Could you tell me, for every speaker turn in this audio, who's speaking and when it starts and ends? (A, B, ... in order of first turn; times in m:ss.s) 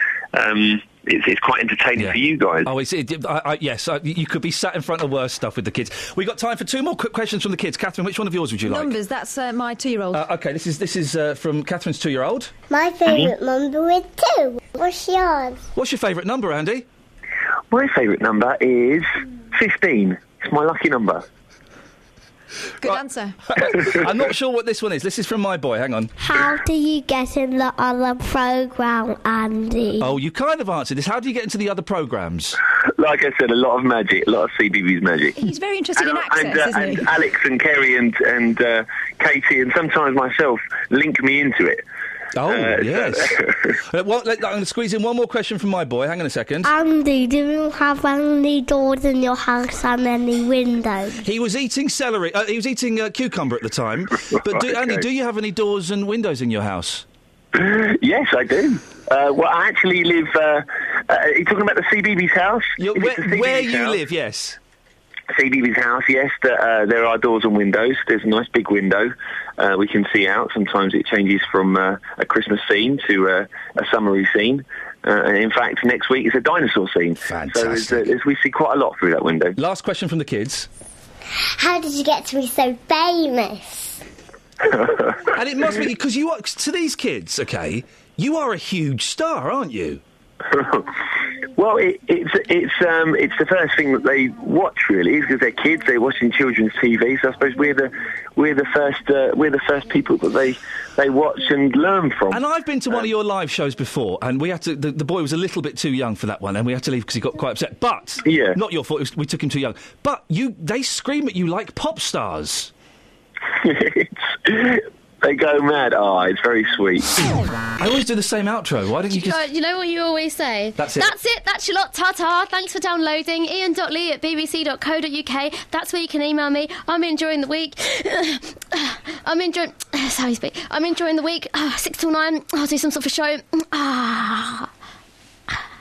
0:00.3-0:02.7 A
0:02.0-0:08.9 B
0:08.6-0:10.2 C
0:10.1-0:12.5 B
0:12.7-0:15.6 D
0:15.7-0:16.8 B
0:17.7-0:21.2 A
0:22.8-0:23.4 C
0:22.8-0:26.1 B
0:26.2-0:30.1 D
0:30.0-0:32.6 B
0:33.0-0:35.4 A
0:35.4-0:37.0 C
0:36.0-0:41.8 A
0:42.3-0:46.7 B
0:42.5-0:43.6 A
0:46.6-0:51.2 D
0:51.2-0:57.0 B
0:54.4-0:55.0 A
0:57.5-1:04.0 A
1:02.8-1:04.6 B
1:05.3-1:19.6 A
1:17.2-1:18.2 B
1:19.6-1:20.7 B
1:21.6-1:24.0 D
1:24.6-1:25.2 A
1:25.3-1:30.0 B
1:30.5-1:30.9 A
1:31.5-1:42.4 A
1:42.3-1:52.7 B
1:48.2-1:48.6 A
1:53.5-1:57.2 A
1:57.8-1:59.4 B
1:59.1-2:14.7 E
2:00.8-2:01.1 B